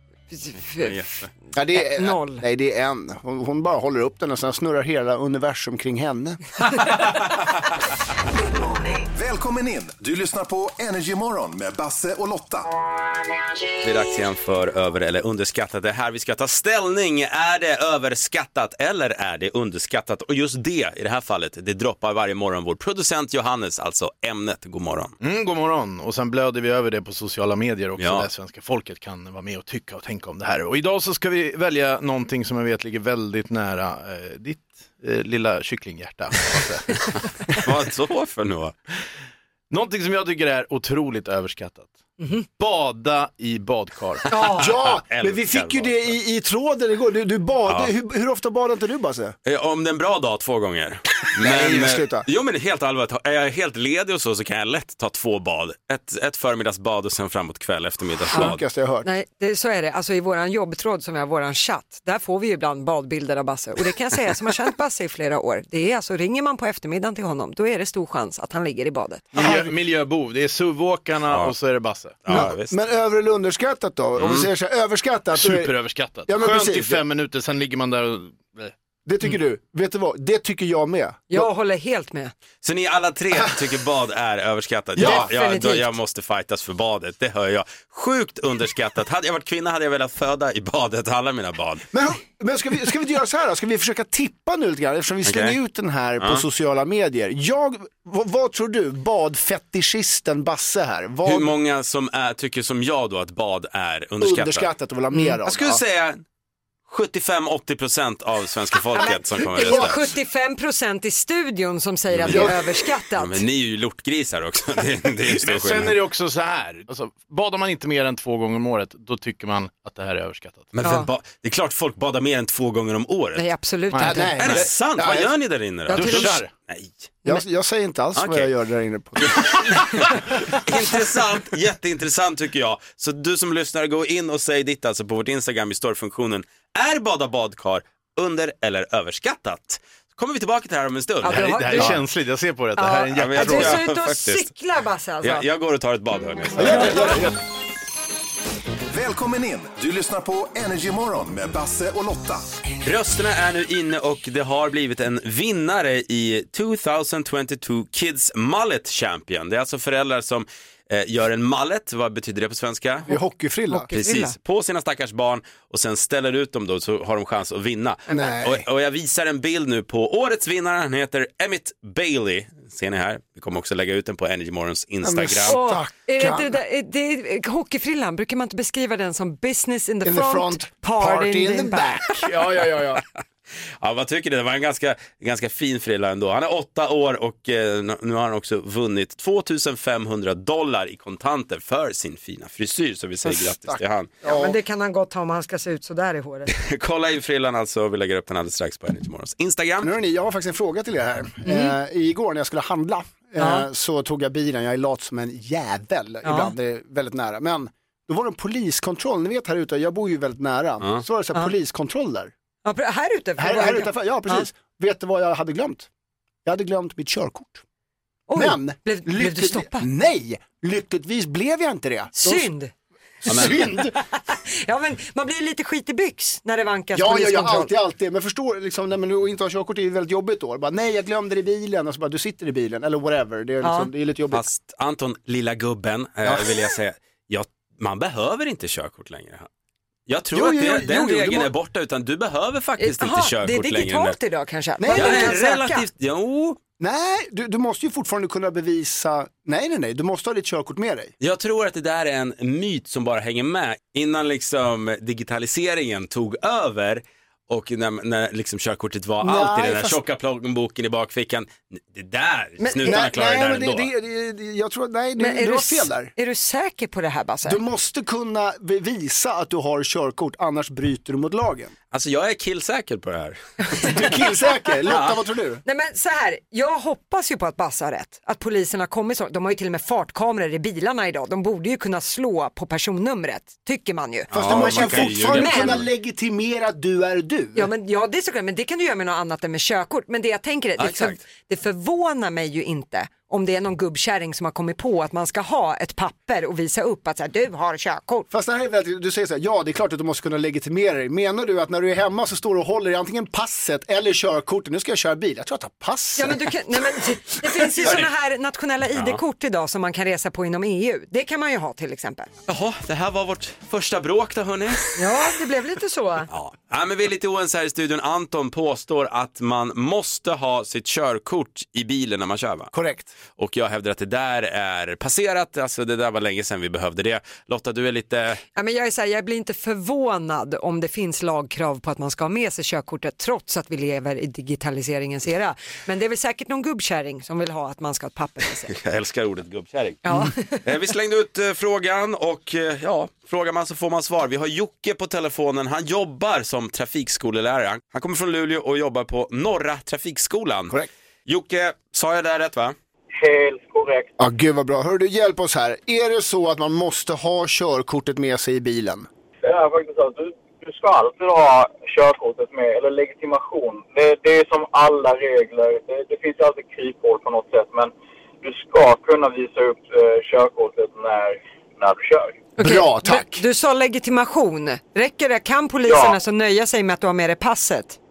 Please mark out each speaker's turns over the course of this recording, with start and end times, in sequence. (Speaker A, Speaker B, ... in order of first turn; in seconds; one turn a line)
Speaker A: 0.3-1.0
Speaker B: 0.8-1.3
Speaker C: 1.6-6.4
Speaker A: 1.7-2.4
Speaker B: 6.9-7.2
Speaker D: 9.2-12.7
Speaker B: 13.8-25.1
Speaker E: 25.2-37.6
Speaker B: 28.0-28.3
Speaker B: 37.5-38.7
Speaker E: 39.7-42.0
Speaker A: 42.2-42.5
Speaker E: 42.6-44.3
Speaker A: 44.3-44.7
Speaker C: 44.5-49.4
Speaker B: 44.8-46.1
Speaker B: 47.7-47.9
Speaker B: 49.5-58.6
Speaker C: 51.4-52.3
Speaker C: 58.3-59.1
Speaker A: 58.3-69.3
Speaker C: 69.3-69.7
Speaker E: 69.3-72.3
Speaker B: 71.3-71.5
Speaker B: 72.2-72.8
Speaker C: 72.3-75.7
Speaker B: 74.2-74.5
Speaker E: 75.3-78.7
Speaker C: 76.3-77.0
Speaker C: 79.1-81.5
Speaker A: 81.3-82.3
Speaker B: 82.6-91.8
Speaker C: 83.3-83.6
Speaker C: 85.0-85.3
Speaker A: 85.0-85.9
Speaker C: 91.9-101.5
Speaker B: 95.2-95.6
Speaker B: 96.2-96.4
Speaker B: 101.3-104.7
Speaker C: 104.2-105.8
Speaker A: 105.1-105.4
Speaker B: 105.5-106.2
Speaker B: 106.9-110.0
Speaker A: 109.0-113.4
Speaker C: 109.7-109.9
Speaker B: 112.1-112.5
Speaker C: 112.3-112.6
Speaker B: 113.2-116.0
Speaker E: 115.3-120.8
Speaker B: 120.7-123.5
Speaker A: 120.8-121.1
Speaker A: 123.4-124.6
Speaker E: 123.9-124.7
Speaker C: 124.0-125.3
Speaker B: 124.4-127.1
Speaker A: 125.9-126.4
Speaker E: 125.9-126.5
Speaker C: 127.2-129.8
Speaker B: 128.2-128.5
Speaker B: 129.2-142.0
Speaker A: 141.2-142.0
Speaker E: 141.3-143.8
Speaker A: 142.8-145.5
Speaker B: 143.1-144.5
Speaker B: 145.2-147.3
Speaker C: 146.6-147.3
Speaker A: 146.6-146.9
Speaker D: 146.8-147.2
Speaker D: 148.9-152.5
Speaker B: 152.8-163.1
Speaker C: 163.1-163.9
Speaker A: 163.7-164.3
Speaker B: 164.0-175.6
Speaker C: 168.1-168.7
Speaker C: 175.0-176.6
Speaker A: 175.5-182.3
Speaker C: 180.0-183.0
Speaker B: 183.8-194.1
Speaker C: 193.2-194.6
Speaker A: 194.2-196.5
Speaker B: 196.5-199.9
Speaker C: 199.8-212.3
Speaker A: 201.5-201.8
Speaker A: 203.4-203.7
Speaker A: 206.2-206.5
Speaker A: 212.7-214.5
Speaker C: 213.4-215.9
Speaker C: 216.4-217.6
Speaker A: 218.3-219.9
Speaker C: 218.3-222.5
Speaker A: 222.2-222.7
Speaker C: 223.2-223.9
Speaker B: 223.3-223.6
Speaker A: 223.3-227.7
Speaker C: 226.9-234.5
Speaker A: 233.6-233.9
Speaker B: 234.3-239.5
Speaker C: 236.2-236.5
Speaker B: 240.1-244.2
Speaker C: 240.3-241.5
Speaker A: 242.8-245.9
Speaker C: 244.8-245.4
Speaker B: 244.9-246.6
Speaker C: 246.8-251.1
Speaker B: 251.2-263.9
Speaker C: 259.2-260.0
Speaker A: 262.6-263.1
Speaker C: 262.8-266.1
Speaker A: 265.2-267.6
Speaker C: 267.4-271.8
Speaker B: 271.9-274.0
Speaker A: 273.7-274.2
Speaker C: 273.8-275.6
Speaker B: 274.9-275.2
Speaker A: 275.6-285.8
Speaker B: 284.3-285.9
Speaker C: 284.3-287.7
Speaker A: 287.6-298.3
Speaker B: 290.8-291.2
Speaker C: 298.3-308.0
Speaker A: 306.2-312.3
Speaker B: 307.8-308.1
Speaker B: 308.9-309.2
Speaker B: 312.5-315.0
Speaker A: 315.0-316.3
Speaker B: 316.3-322.7
Speaker C: 322.7-323.1
Speaker B: 323.4-328.4
Speaker A: 328.6-338.8
Speaker B: 338.7-350.8
Speaker A: 340.1-340.6
Speaker B: 351.3-352.8
Speaker F: 353.1-354.1
Speaker C: 354.2-359.1
Speaker F: 359.4-372.4
Speaker A: 372.6-378.0
Speaker C: 372.6-373.4
Speaker F: 375.8-376.2